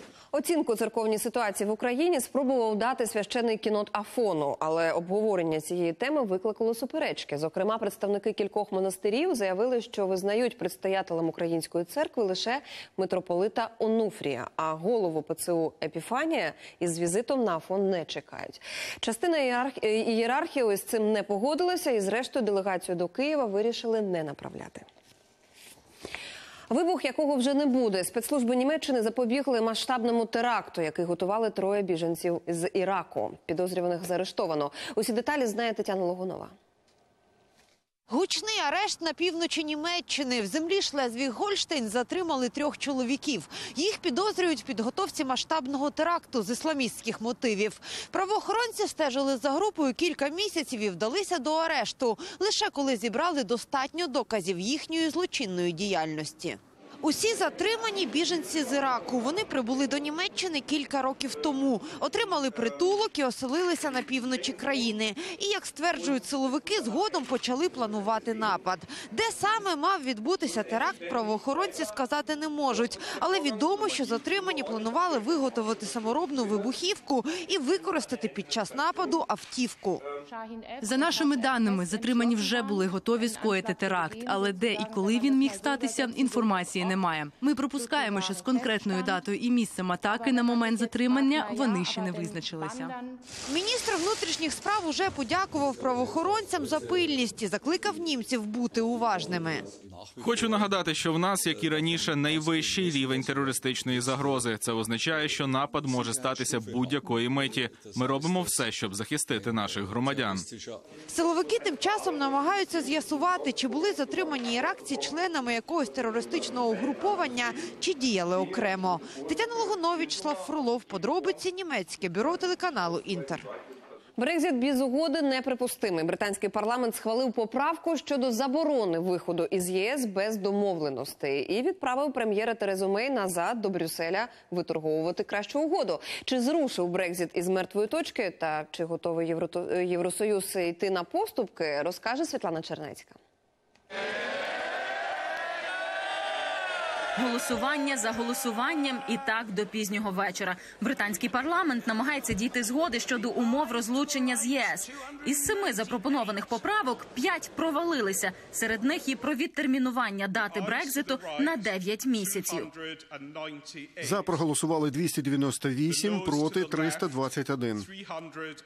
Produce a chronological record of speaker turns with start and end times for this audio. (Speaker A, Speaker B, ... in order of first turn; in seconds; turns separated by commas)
Speaker A: 0.3-24.9, Speaker A: 26.7-36.5, Speaker B: 38.1-80.0, Speaker C: 80.8-92.9, Speaker B: 93.5-98.5, Speaker D: 98.5-99.3, Speaker B: 99.2-99.6, Speaker E: 100.2-110.5, Speaker B: 111.1-123.4, Speaker D: 122.5-123.4, Speaker A: 124.2-143.2, Speaker F: 147.2-162.7, Speaker D: 164.0-167.9